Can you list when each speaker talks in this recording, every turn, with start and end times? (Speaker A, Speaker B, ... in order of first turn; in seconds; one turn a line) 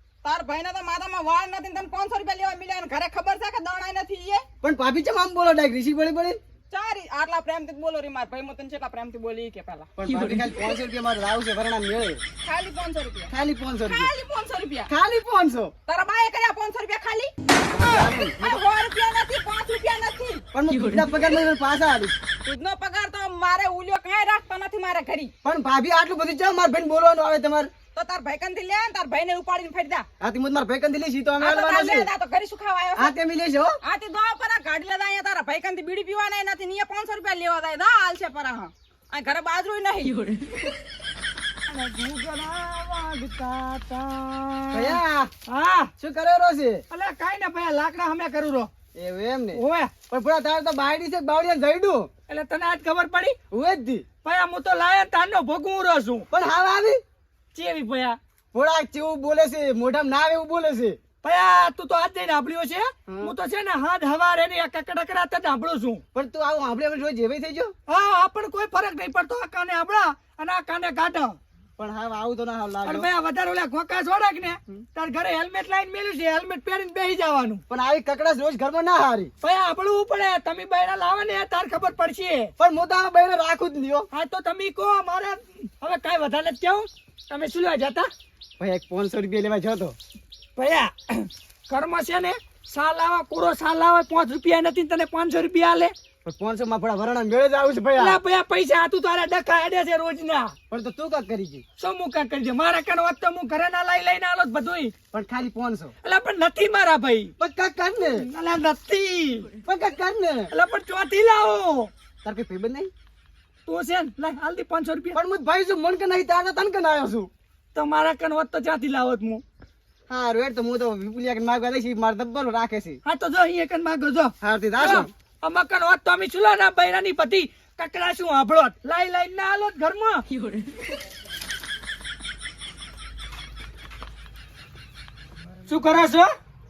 Speaker A: 0.2-4.4
Speaker B: 4.6-6.4
Speaker A: 6.7-9.9
Speaker B: 10.0-12.2
Speaker A: 12.4-13.3
Speaker B: 13.3-14.1
Speaker A: 13.8-14.9
Speaker B: 14.9-15.7
Speaker A: 15.9-20.4
Speaker B: 17.7-18.6
Speaker B: 20.5-22.1
Speaker A: 22.4-25.3
Speaker B: 25.4-27.7
Speaker A: 27.9-30.1
Speaker B: 30.2-32.1
Speaker A: 31.4-33.1
Speaker B: 33.0-33.8
Speaker A: 33.8-40.3
Speaker C: 41.7-45.9
Speaker B: 44.7-45.3
Speaker B: 46.0-46.8
Speaker C: 46.9-48.7
Speaker B: 48.9-52.1
Speaker C: 49.5-49.9
Speaker C: 52.3-53.4
Speaker B: 53.5-54.0
Speaker C: 54.2-56.2
Speaker B: 56.3-57.0
Speaker C: 57.5-58.2
Speaker B: 58.5-61.0
Speaker C: 61.2-66.0
Speaker B: 63.1-63.3
Speaker B: 66.1-67.7
Speaker C: 67.9-71.4
Speaker B: 71.8-73.1
Speaker C: 72.8-77.6
Speaker B: 77.7-79.3
Speaker C: 79.4-82.5
Speaker B: 82.6-84.1
Speaker C: 84.1-88.1
Speaker B: 88.6-90.0
Speaker C: 90.5-95.9
Speaker B: 96.2-98.2
Speaker C: 98.0-100.5
Speaker B: 100.7-101.6
Speaker C: 101.8-104.9
Speaker B: 105.1-105.9
Speaker C: 106.0-107.3
Speaker B: 107.4-108.3
Speaker C: 108.1-109.5
Speaker B: 109.6-110.5
Speaker C: 110.5-111.9
Speaker B: 112.2-112.9
Speaker C: 113.7-115.2
Speaker B: 115.1-117.3
Speaker C: 117.7-119.4
Speaker B: 120.1-123.0
Speaker C: 123.0-130.3
Speaker B: 124.4-125.1
Speaker C: 135.7-136.3